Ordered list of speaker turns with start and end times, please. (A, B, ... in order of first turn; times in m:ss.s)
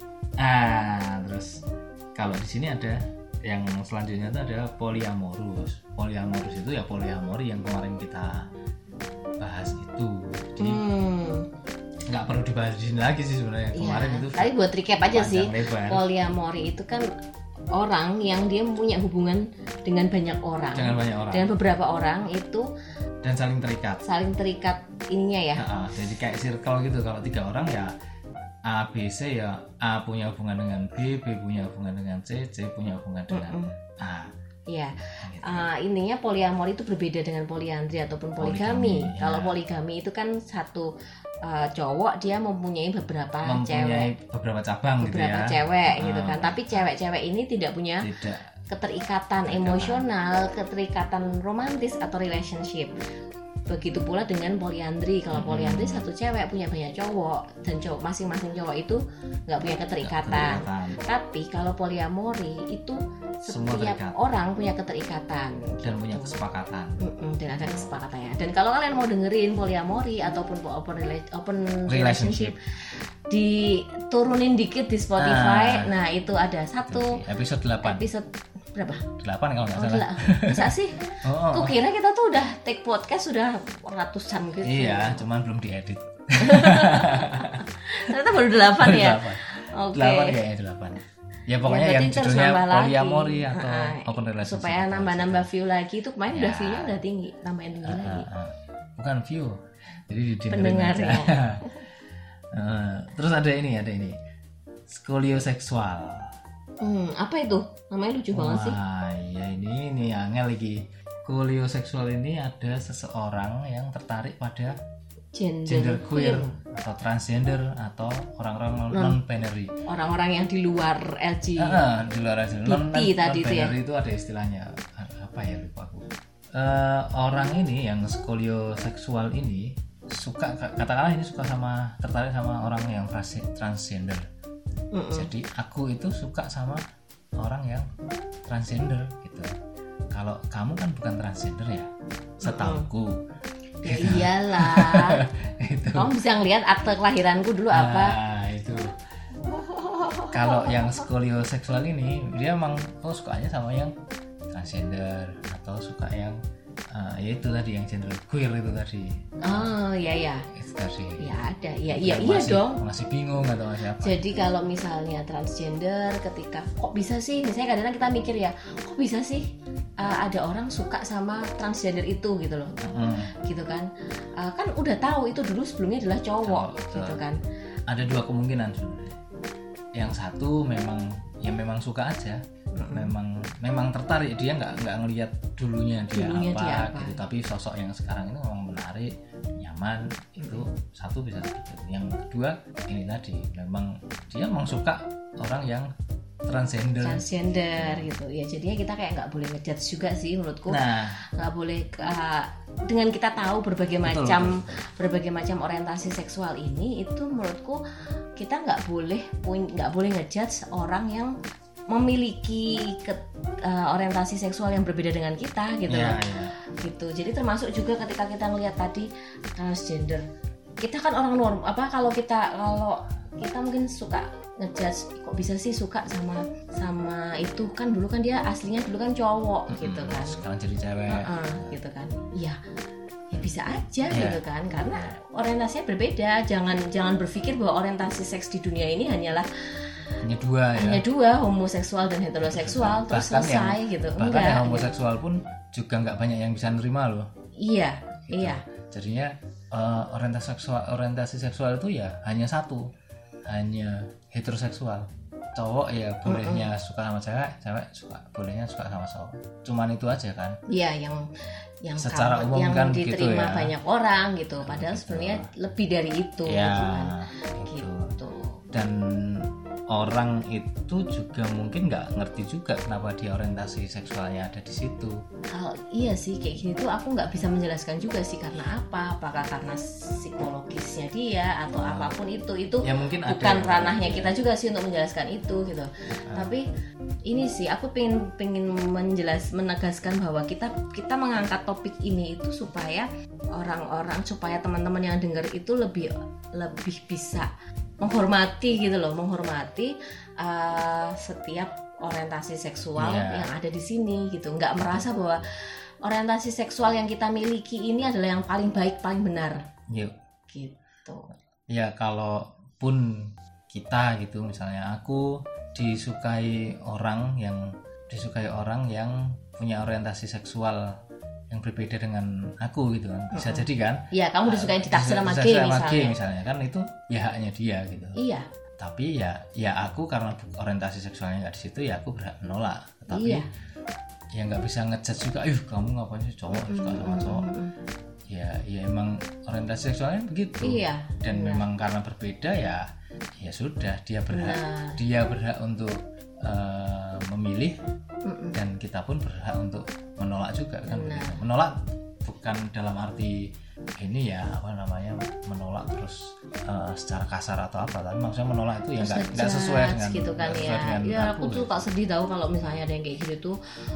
0:00.4-0:01.6 A
0:02.1-0:08.5 A
0:09.4-0:10.8 A
0:10.6-0:11.5 B
0:12.0-0:14.5 A
0:13.7-0:17.1 B
0:15.1-0:16.0 A
0:17.7-0:22.7 B
0:20.7-0:21.5 A
0:23.2-0:24.0 A
0:24.0-0:25.6 B
0:25.6-0:27.9 A
0:28.6-0:34.3 A
0:33.3-0:33.7 B
0:34.7-0:40.9 B
0:35.2-0:35.7 A
0:38.4-0:39.6 A
0:41.4-0:44.1 B
0:43.4-0:46.9 A
0:45.0-0:48.1 B
0:48.0-0:48.5 A
0:48.7-0:52.9 B
0:49.4-0:50.0 A
0:53.7-1:06.4 B
0:55.3-0:56.1 A
1:00.0-1:01.0 A
1:03.5-1:04.2 A
1:05.8-1:07.0 A
1:07.0-1:17.2 B
1:07.6-1:07.9 A
1:11.9-1:12.6 A
1:15.2-1:15.9 A
1:16.9-1:18.0 A
1:17.8-1:19.1 B
1:19.2-1:20.7 A
1:19.7-1:25.2 B
1:21.2-1:21.7 A
1:24.6-1:28.1 A
1:26.4-1:30.4 B
1:28.8-1:35.5 A
1:31.6-1:38.3 B
1:36.3-1:37.0 A
1:37.8-1:41.7 A
1:40.5-1:41.8 B
1:42.5-1:44.2 A
1:44.9-1:46.3 A
1:46.8-1:48.8 B
1:48.3-1:54.8 A
1:55.3-1:56.6 B
1:55.6-1:59.7 A
1:58.9-1:59.2 B
1:59.9-2:01.8 B
2:01.6-2:14.2 A
2:02.6-2:03.7 B
2:14.9-2:15.3 B
2:15.1-2:16.8 A
2:17.4-2:17.9 A
2:18.5-2:19.5 A
2:20.1-2:21.9 A
2:22.4-2:23.2 A
2:22.4-2:22.9 B
2:23.8-2:25.2 B
2:23.8-2:26.1 A
2:25.9-2:28.2 B
2:27.7-2:29.0 A
2:29.5-2:31.0 B
2:30.3-2:33.9 A
2:34.5-2:36.4 A
2:36.9-2:39.7 A
2:39.4-2:40.5 B
2:40.5-2:41.3 A
2:41.2-2:42.8 B
2:41.9-2:44.3 A
2:44.0-2:49.5 B
2:50.0-2:52.8 B
2:52.8-2:53.3 A
2:53.4-2:57.4 B
2:56.4-2:57.2 A
2:57.9-2:59.2 A
2:59.9-3:15.9 A
3:02.7-3:03.1 B
3:06.1-3:07.2 B
3:10.4-3:10.6 B
3:16.5-3:18.1 A
3:17.0-3:20.8 B
3:20.7-3:21.2 A
3:21.4-3:27.8 B
3:24.0-3:24.8 A
3:28.4-3:31.3 B
3:31.9-3:36.2 B
3:35.9-3:36.5 A
3:36.8-3:40.2 B
3:40.8-3:50.4 B
3:49.7-3:51.8 A
3:51.1-3:52.6 B
3:53.3-3:59.9 B
3:54.1-3:54.4 A
4:00.2-4:01.0 A
4:00.8-4:04.9 B
4:02.4-4:07.3 A
4:07.6-4:08.6 B
4:08.3-4:12.8 A
4:13.4-4:20.6 A
4:16.2-4:16.7 B
4:20.7-4:28.6 B
4:22.0-4:23.7 A
4:24.6-4:25.5 A
4:26.4-4:28.1 A
4:28.7-4:35.2 A
4:35.5-4:46.6 B
4:41.7-4:42.1 A
4:42.8-4:44.3 A
4:46.1-4:46.6 A
4:47.2-4:57.5 B
4:58.0-5:09.6 B
5:03.0-5:03.5 A
5:09.9-5:10.2 A
5:10.5-5:11.3 B
5:11.7-5:20.9 A
5:21.5-5:28.2 A
5:23.3-5:26.1 B
5:28.2-5:28.4 B
5:28.8-5:33.4 A
5:33.1-5:33.5 B
5:34.3-5:37.5 A
5:36.5-5:37.7 B
5:38.3-5:42.8 A
5:40.6-5:41.6 B
5:43.4-5:47.8 A
5:44.3-5:45.0 B
5:48.2-5:48.6 B
5:48.5-6:01.7 A
5:50.8-5:51.4 B
5:59.0-6:03.6 B